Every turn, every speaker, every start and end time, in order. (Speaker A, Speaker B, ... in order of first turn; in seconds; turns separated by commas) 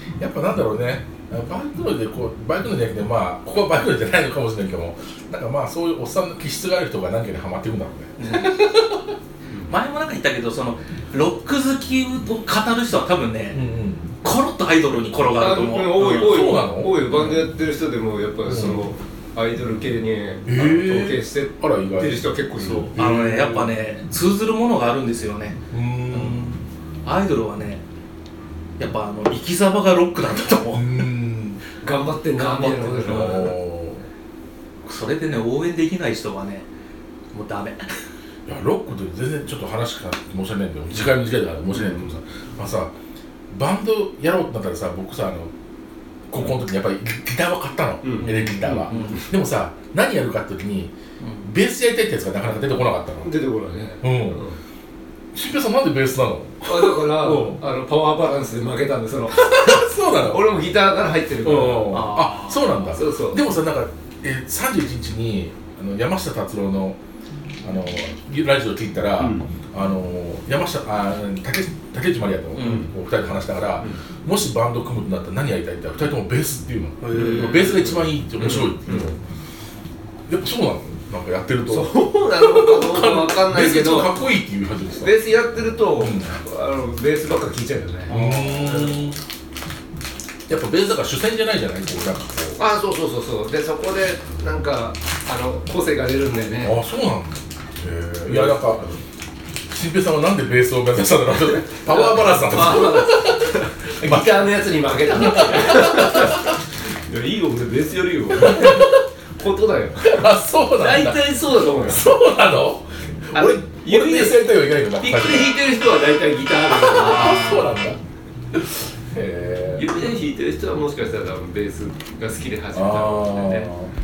Speaker A: 0.2-8.8, Speaker B: 8.2-8.7, Speaker B: 9.7-13.6, Speaker A: 13.5-14.1, Speaker B: 14.2-17.4, Speaker C: 15.3-22.9, Speaker A: 16.0-17.0, Speaker A: 18.5-18.8, Speaker A: 20.5-22.3, Speaker B: 22.6-27.8, Speaker A: 22.9-23.8, Speaker A: 25.7-26.4, Speaker B: 28.8-31.0, Speaker A: 30.7-31.6, Speaker C: 31.8-33.5, Speaker B: 32.4-33.5, Speaker A: 33.0-34.1, Speaker B: 34.8-36.6, Speaker B: 37.3-37.9, Speaker A: 38.5-42.9, Speaker C: 41.7-42.1, Speaker A: 43.5-45.5, Speaker A: 46.3-53.3, Speaker C: 48.0-49.3, Speaker B: 48.2-49.2, Speaker C: 53.2-54.6, Speaker A: 54.0-54.4, Speaker A: 55.3-57.6, Speaker C: 56.6-62.0, Speaker A: 59.3-60.4, Speaker A: 61.4-67.0, Speaker B: 61.9-63.0, Speaker C: 62.9-63.4, Speaker A: 67.6-79.2, Speaker C: 69.2-69.5, Speaker B: 72.5-72.8, Speaker C: 72.6-72.9, Speaker B: 77.0-77.8, Speaker C: 77.1-79.1, Speaker A: 80.3-85.2, Speaker C: 81.6-84.2, Speaker C: 85.0-89.0, Speaker A: 85.9-86.4, Speaker B: 88.1-88.6, Speaker A: 88.1-89.2, Speaker A: 90.5-92.6, Speaker C: 92.6-96.8, Speaker A: 96.6-98.8, Speaker C: 98.2-99.0, Speaker A: 99.7-103.5, Speaker C: 101.8-112.1, Speaker A: 104.0-104.5, Speaker A: 105.2-106.3, Speaker A: 108.4-109.0, Speaker A: 110.0-115.5, Speaker C: 113.3-117.5, Speaker A: 116.7-118.0, Speaker B: 117.0-117.9, Speaker A: 118.5-120.0, Speaker C: 119.8-123.7, Speaker A: 122.7-123.9